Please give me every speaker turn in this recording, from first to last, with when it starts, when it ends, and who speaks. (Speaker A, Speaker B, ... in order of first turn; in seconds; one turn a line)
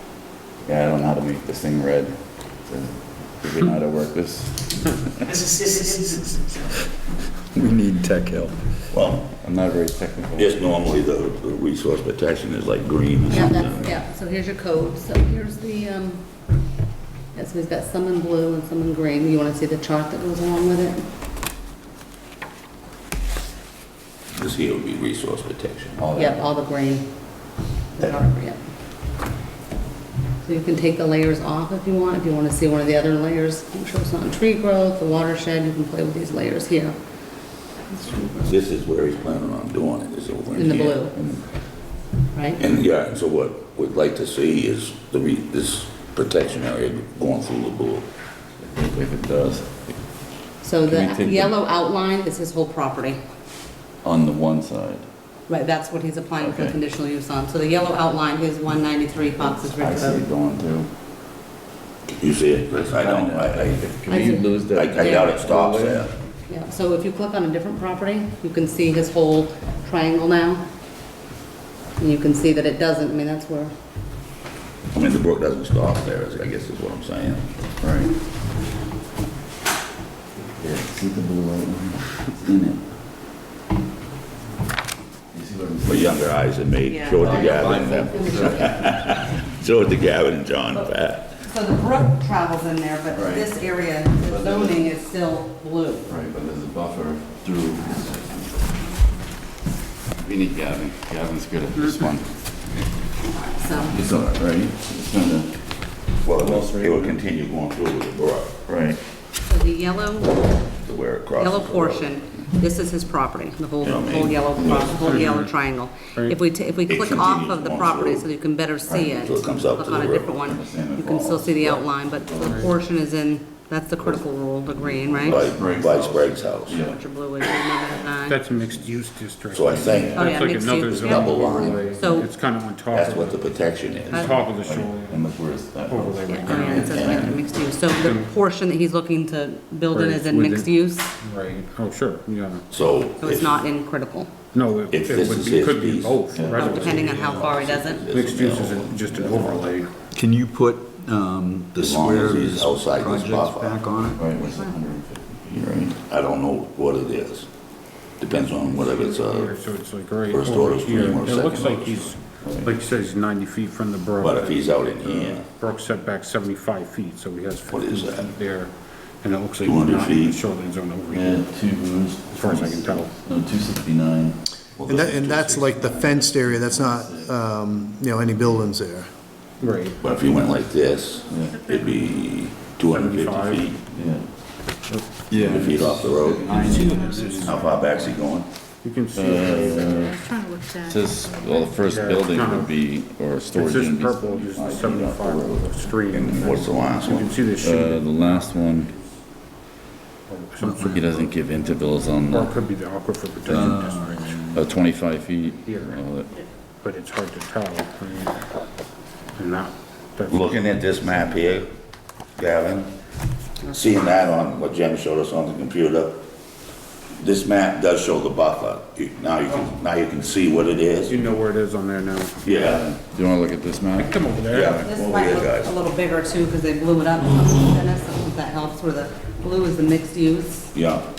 Speaker A: 0.7-5.5
Speaker B: 5.4-5.8
Speaker C: 7.6-8.6
Speaker D: 8.9-9.3
Speaker A: 9.3-10.8
Speaker D: 10.4-14.0
Speaker E: 13.3-16.3
Speaker E: 17.3-21.0
Speaker D: 24.3-26.1
Speaker A: 26.0-26.4
Speaker E: 26.1-27.1
Speaker E: 28.0-28.6
Speaker E: 30.4-37.0
Speaker E: 38.0-38.3
Speaker D: 38.5-41.0
Speaker E: 40.5-41.2
Speaker A: 41.1-41.5
Speaker E: 42.3-42.6
Speaker D: 42.6-48.1
Speaker A: 48.6-50.3
Speaker E: 50.6-53.2
Speaker A: 50.8-51.5
Speaker A: 54.0-55.1
Speaker E: 55.5-60.2
Speaker A: 56.4-56.8
Speaker A: 59.7-60.9
Speaker D: 62.1-63.9
Speaker A: 62.8-66.1
Speaker E: 64.1-65.4
Speaker D: 64.7-66.1
Speaker E: 66.5-70.6
Speaker E: 72.0-73.7
Speaker D: 74.9-77.5
Speaker A: 77.8-78.1
Speaker A: 80.6-82.8
Speaker A: 85.3-86.4
Speaker D: 85.8-91.3
Speaker E: 86.9-88.8
Speaker A: 87.1-88.9
Speaker E: 91.4-96.1
Speaker A: 93.1-93.7
Speaker A: 94.2-94.8
Speaker A: 96.1-98.4
Speaker A: 100.2-102.4
Speaker E: 103.4-104.0
Speaker A: 103.7-107.2
Speaker D: 106.2-108.6
Speaker A: 108.7-109.0
Speaker E: 109.4-110.6
Speaker D: 110.8-112.1
Speaker E: 111.3-125.4
Speaker D: 113.8-114.5
Speaker A: 114.5-115.0
Speaker F: 115.0-115.5
Speaker D: 116.9-118.3
Speaker A: 118.9-119.2
Speaker D: 119.2-120.4
Speaker A: 120.4-122.7
Speaker F: 122.4-122.7
Speaker A: 124.8-127.0
Speaker D: 125.2-126.8
Speaker E: 126.7-128.4
Speaker F: 128.2-135.2
Speaker A: 128.6-128.9
Speaker D: 129.5-131.9
Speaker A: 129.7-130.4
Speaker E: 130.1-132.3
Speaker D: 132.9-134.3
Speaker E: 134.1-134.4
Speaker A: 134.5-136.7
Speaker F: 135.9-137.2
Speaker E: 136.3-141.1
Speaker D: 136.5-137.4
Speaker F: 138.0-138.3
Speaker F: 139.9-142.7
Speaker D: 142.7-143.6
Speaker E: 143.2-144.3
Speaker F: 144.5-147.6
Speaker D: 144.9-149.8
Speaker A: 146.3-146.6
Speaker E: 146.5-148.0
Speaker F: 148.1-149.9
Speaker C: 150.1-154.5
Speaker D: 151.8-153.9
Speaker A: 154.1-156.0
Speaker D: 156.0-157.5
Speaker D: 158.2-159.6
Speaker F: 158.7-171.5
Speaker D: 160.3-162.2
Speaker A: 162.4-162.7
Speaker D: 164.2-165.4
Speaker D: 167.7-168.3
Speaker D: 169.6-170.4
Speaker A: 171.1-174.4
Speaker F: 172.3-173.1
Speaker D: 174.7-175.8
Speaker G: 174.9-179.1
Speaker A: 175.7-177.3
Speaker F: 179.6-180.0
Speaker D: 180.0-183.8
Speaker A: 181.3-181.6
Speaker F: 182.9-183.7
Speaker A: 183.9-184.3
Speaker F: 184.9-185.3
Speaker C: 185.3-187.2
Speaker D: 185.4-186.8
Speaker F: 186.1-188.1
Speaker A: 186.4-187.0
Speaker B: 187.0-187.7
Speaker D: 187.4-188.5
Speaker F: 188.8-190.0
Speaker A: 189.1-190.2
Speaker B: 189.9-191.7
Speaker A: 190.8-195.7
Speaker F: 191.8-192.8
Speaker F: 193.5-198.3
Speaker D: 196.1-197.3
Speaker A: 197.6-199.0
Speaker F: 200.3-201.2
Speaker C: 200.6-201.0
Speaker A: 200.9-202.5
Speaker F: 202.2-204.3
Speaker A: 203.5-203.8
Speaker C: 203.5-204.5
Speaker A: 204.5-206.3
Speaker F: 205.6-206.0
Speaker F: 206.8-208.5
Speaker F: 209.3-210.8
Speaker D: 210.3-211.7
Speaker D: 212.4-212.9
Speaker D: 213.7-216.2
Speaker D: 217.2-221.2
Speaker F: 221.1-222.5
Speaker D: 222.4-222.8
Speaker A: 222.6-224.8
Speaker F: 224.0-224.8
Speaker D: 224.5-225.7
Speaker E: 224.8-230.7
Speaker D: 230.7-231.1